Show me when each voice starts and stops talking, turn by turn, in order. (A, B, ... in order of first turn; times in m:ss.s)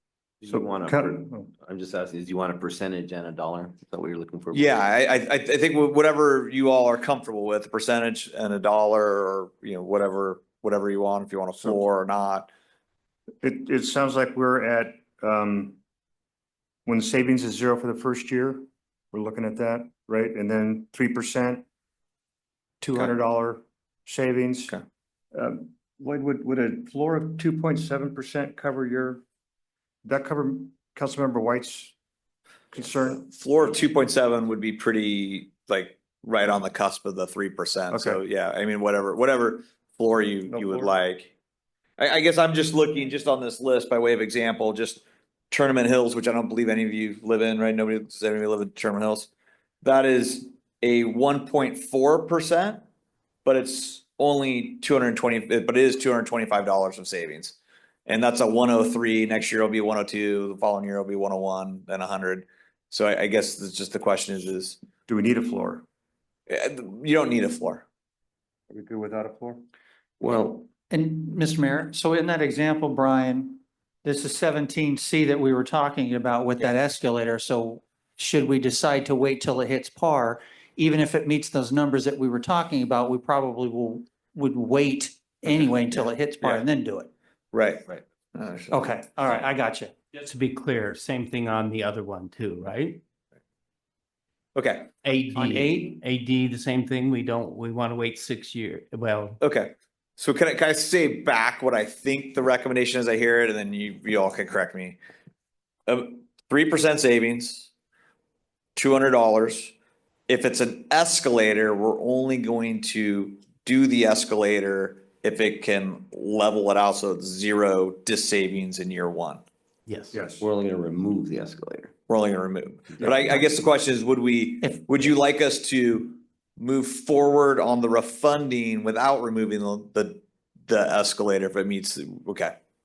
0:00.4-0:04.8 A
0:00.5-0:01.5 B
0:04.5-0:12.5 C
0:13.4-0:15.8 B
0:16.8-0:21.6 B
0:22.8-0:24.8 B
0:25.3-0:29.2 B
0:30.0-0:31.9 B
0:32.7-0:33.2 B
0:33.0-0:41.3 C
0:37.9-0:38.2 B
0:40.5-0:40.9 B
0:42.0-0:49.3 C
0:49.8-0:52.8 C
0:53.4-1:04.8 C
1:05.1-1:05.8 B
1:06.5-1:07.8 C
1:08.7-1:09.6 B
1:10.2-1:10.7 A
1:10.9-1:27.1 D
1:25.5-1:26.6 C
1:27.5-1:29.3 C
1:28.7-1:30.0 D
1:30.1-1:33.0 E
1:34.5-1:34.9 C
1:35.0-1:39.4 E
1:35.3-1:36.0 D
1:39.4-1:45.0 C
1:45.9-1:47.7 C
1:48.7-1:49.7 C
1:50.3-1:59.4 C
1:59.9-2:00.2 E
2:00.1-2:00.4 B
2:00.4-2:01.9 A
2:02.1-2:12.5 C